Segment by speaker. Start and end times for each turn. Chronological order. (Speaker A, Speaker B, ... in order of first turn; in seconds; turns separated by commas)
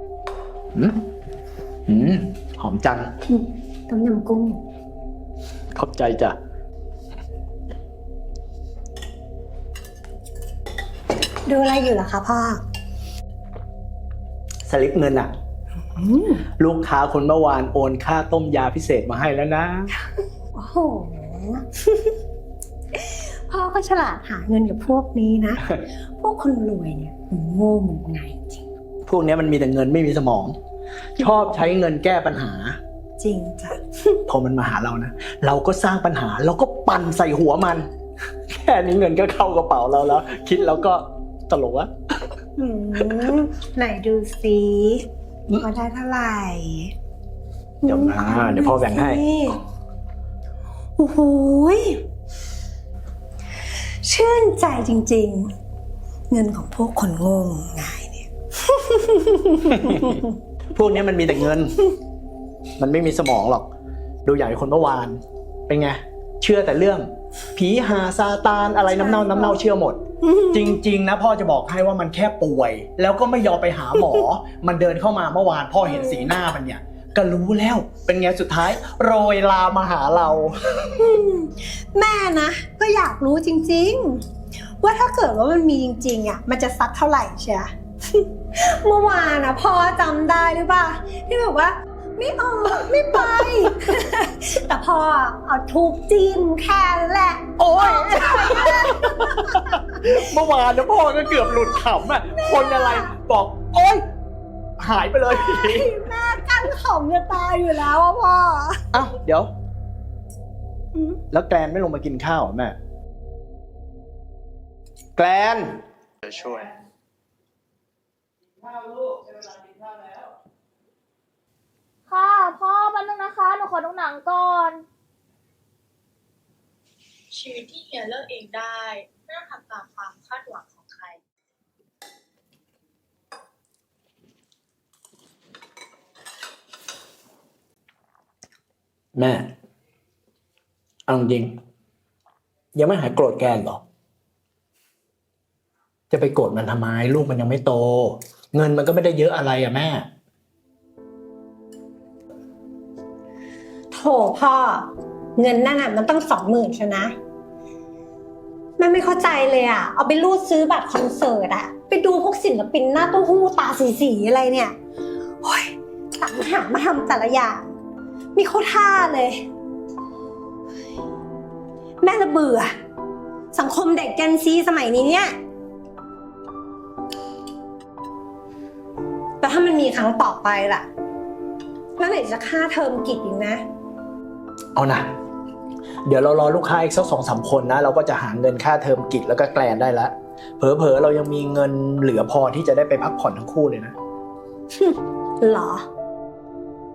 Speaker A: 0.7-1.0, Speaker A: 1.9-3.1, Speaker B: 3.3-4.6, Speaker A: 5.7-6.4, Speaker B: 11.5-12.6, Speaker A: 14.7-15.3, Speaker B: 15.9-16.5, Speaker A: 16.6-19.9, Speaker B: 20.5-22.1, Speaker B: 22.9-28.6, Speaker A: 29.1-30.6, Speaker A: 31.2-32.8, Speaker B: 33.2-34.1, Speaker A: 34.3-37.9, Speaker A: 38.5-41.9, Speaker B: 42.6-46.9, Speaker B: 47.8-49.6, Speaker A: 47.9-49.2, Speaker B: 51.0-52.0, Speaker B: 54.0-55.5, Speaker B: 56.3-60.2, Speaker A: 59.7-60.2, Speaker A: 60.7-61.8, Speaker A: 62.8-63.7, Speaker A: 64.2-70.0, Speaker B: 68.9-69.6, Speaker B: 70.2-70.8, Speaker A: 70.5-80.8, Speaker B: 75.8-76.3, Speaker B: 81.0-84.2, Speaker B: 84.8-87.7, Speaker B: 88.5-99.8, Speaker A: 97.6-104.0, Speaker B: 101.4-103.1, Speaker A: 104.8-105.9, Speaker B: 105.3-108.9, Speaker A: 108.9-109.5, Speaker A: 111.3-112.8, Speaker A: 115.2-116.6, Speaker C: 122.1-124.8, Speaker D: 127.3-131.2, Speaker A: 139.2-139.5, Speaker A: 141.1-141.6, Speaker A: 142.8-143.8, Speaker A: 146.1-150.1, Speaker B: 153.9-157.2, Speaker B: 158.8-164.8, Speaker B: 165.4-167.6, Speaker B: 168.3-169.4, Speaker B: 172.0-172.7, Speaker B: 173.5-175.3, Speaker B: 179.4-180.9, Speaker B: 182.0-183.6, Speaker A: 184.8-185.1, Speaker A: 186.1-193.9, Speaker B: 194.8-195.9